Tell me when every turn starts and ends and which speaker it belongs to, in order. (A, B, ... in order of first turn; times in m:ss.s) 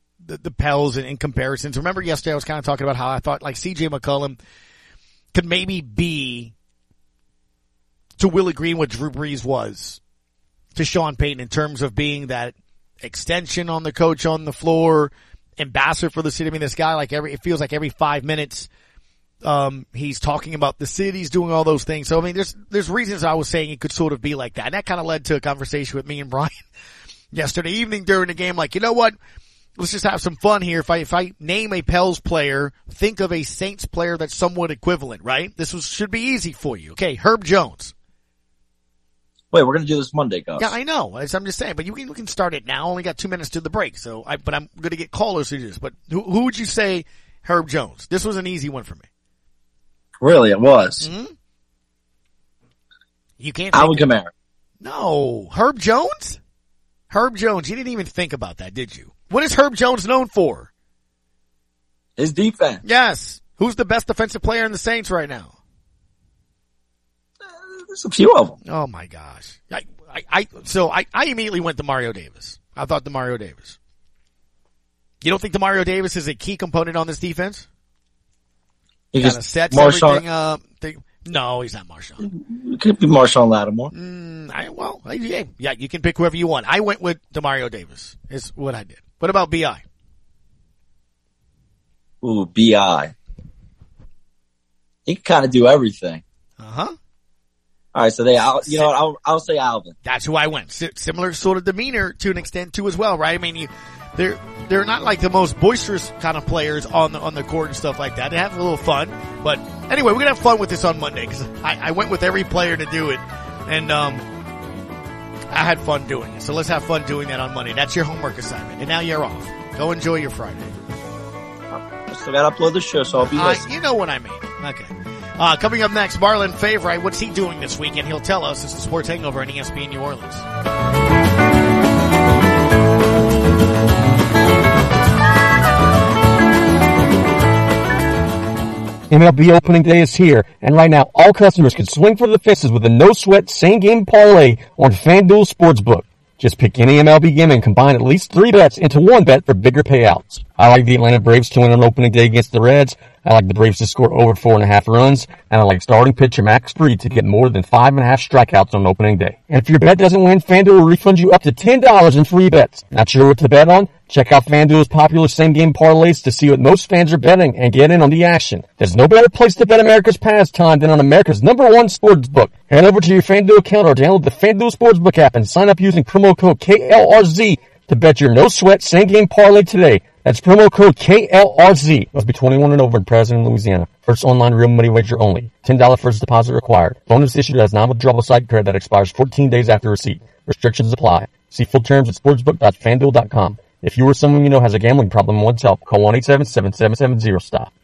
0:00.2-0:04.4 A
0:05.3-0:06.5 A
0:08.2-0:10.0 A
0:10.8-0:18.7 A
0:19.4-0:26.6 A
0:27.3-0:29.2 A
0:29.8-0:37.9 A
0:39.5-0:40.7 B
0:40.6-0:49.0 A
0:50.2-0:51.1 B
0:51.0-0:51.3 A
0:53.4-0:54.1 A
0:53.7-0:54.3 B
0:54.8-0:56.4 A
0:57.1-1:00.7 A
1:02.2-1:02.8 B
1:02.8-1:05.5 A
1:07.5-1:08.6 B
1:08.6-1:13.8 A
1:15.2-1:17.6 A
1:19.1-1:20.2 B
1:19.2-1:22.2 A
1:22.2-1:23.9 B
1:23.9-1:29.8 A
1:32.2-1:33.1 B
1:35.0-1:36.2 B
1:36.6-1:36.9 A
1:37.9-1:39.9 B
1:38.4-1:38.9 A
1:40.0-1:54.2 A
1:55.5-2:00.7 A
2:01.7-2:03.6 B
2:03.4-2:10.4 A
2:19.1-3:17.7 C